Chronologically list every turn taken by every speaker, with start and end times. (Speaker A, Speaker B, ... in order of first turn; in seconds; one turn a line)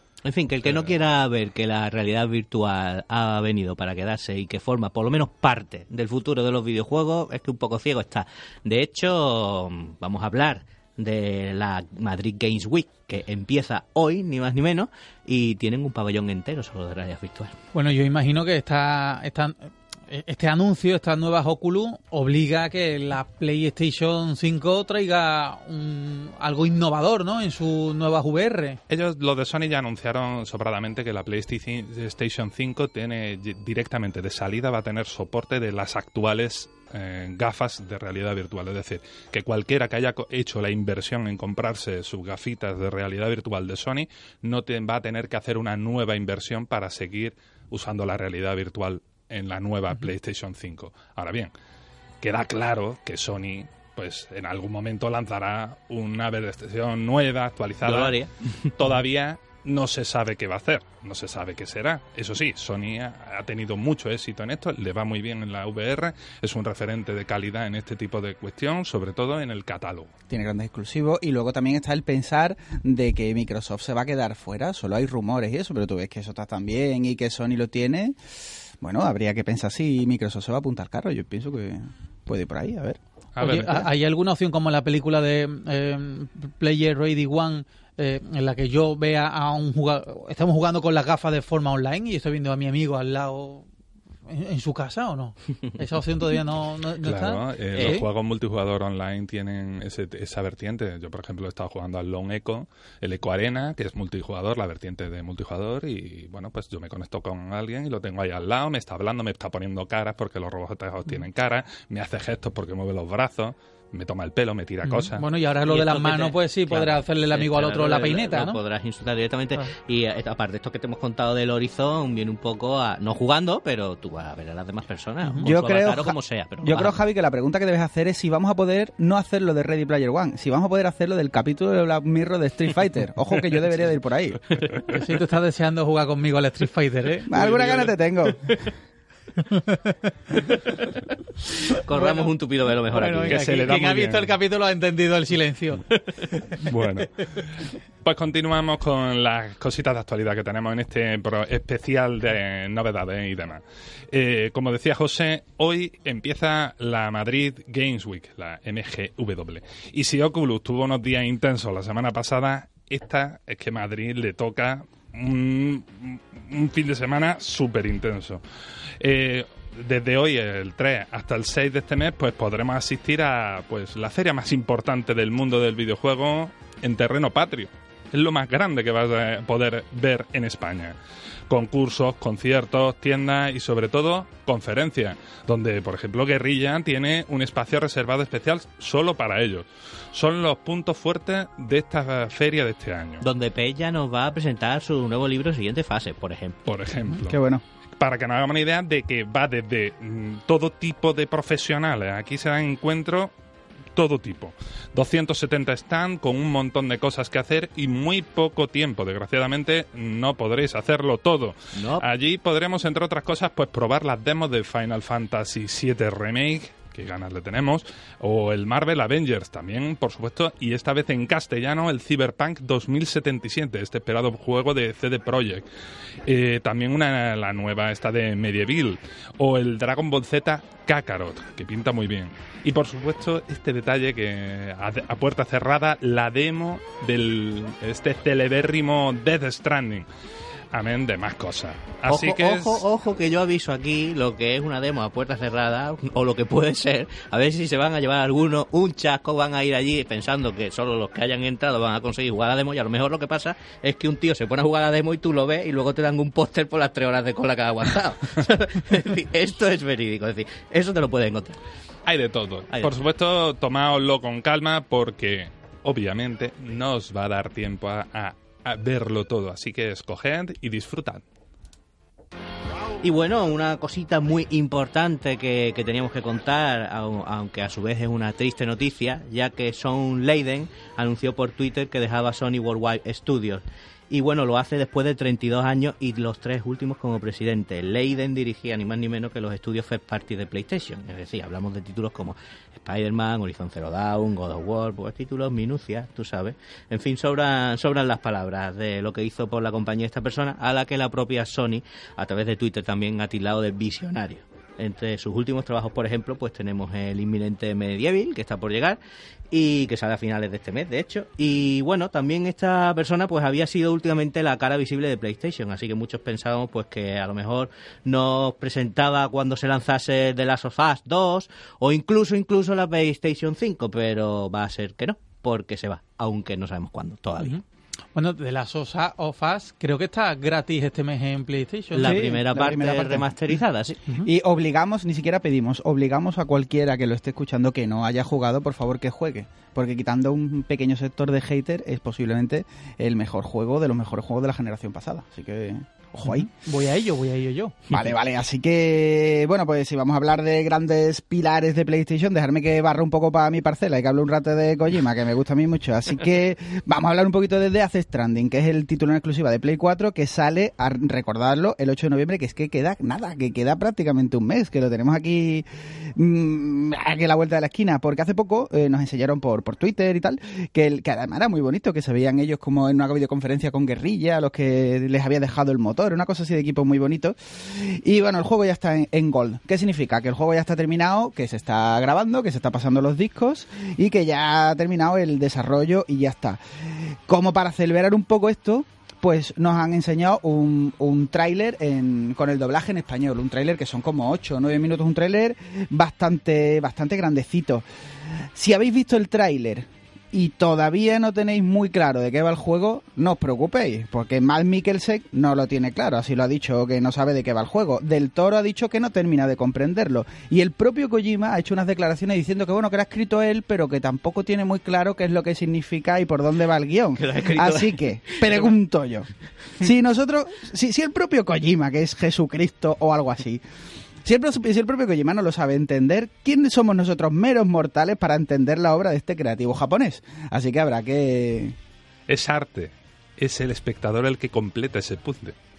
Speaker A: 0.2-17.5
Speaker B: 0.6-0.9
Speaker C: 17.7-19.6
Speaker C: 20.1-28.8
Speaker B: 28.9-51.5
Speaker B: 52.2-58.2
Speaker A: 57.8-58.5
Speaker B: 58.7-70.1
Speaker D: 70.3-78.2
Speaker D: 78.8-83.0
Speaker B: 83.3-83.9
Speaker C: 83.4-93.6
Speaker C: 94.3-98.0
Speaker B: 97.0-115.3
Speaker C: 114.8-118.6
Speaker A: 115.7-127.0
Speaker D: 125.4-134.4
Speaker C: 134.9-137.4
Speaker D: 137.3-138.7
Speaker C: 139.4-140.7
Speaker C: 141.7-142.3
Speaker A: 141.7-143.5
Speaker C: 142.9-145.8
Speaker B: 143.2-144.3
Speaker B: 146.6-168.4
Speaker B: 169.0-180.9
Speaker B: 181.5-193.2
Speaker A: 193.2-196.6
Speaker B: 196.7-197.4
Speaker D: 197.3-197.6
Speaker B: 198.0-203.3
Speaker B: 203.9-225.6
Speaker A: 211.7-212.1
Speaker B: 226.2-240.1
Speaker B: 240.7-242.8
Speaker A: 242.1-261.6
Speaker B: 262.1-271.2
Speaker A: 273.0-309.0
Speaker A: 309.5-327.6
Speaker C: 328.1-332.4
Speaker A: 331.9-334.0
Speaker D: 331.9-333.3
Speaker D: 334.2-346.5
Speaker C: 346.2-347.8
Speaker D: 347.9-397.8
Speaker D: 398.5-423.6
Speaker A: 417.1-418.7
Speaker D: 424.2-431.8
Speaker B: 432.3-435.5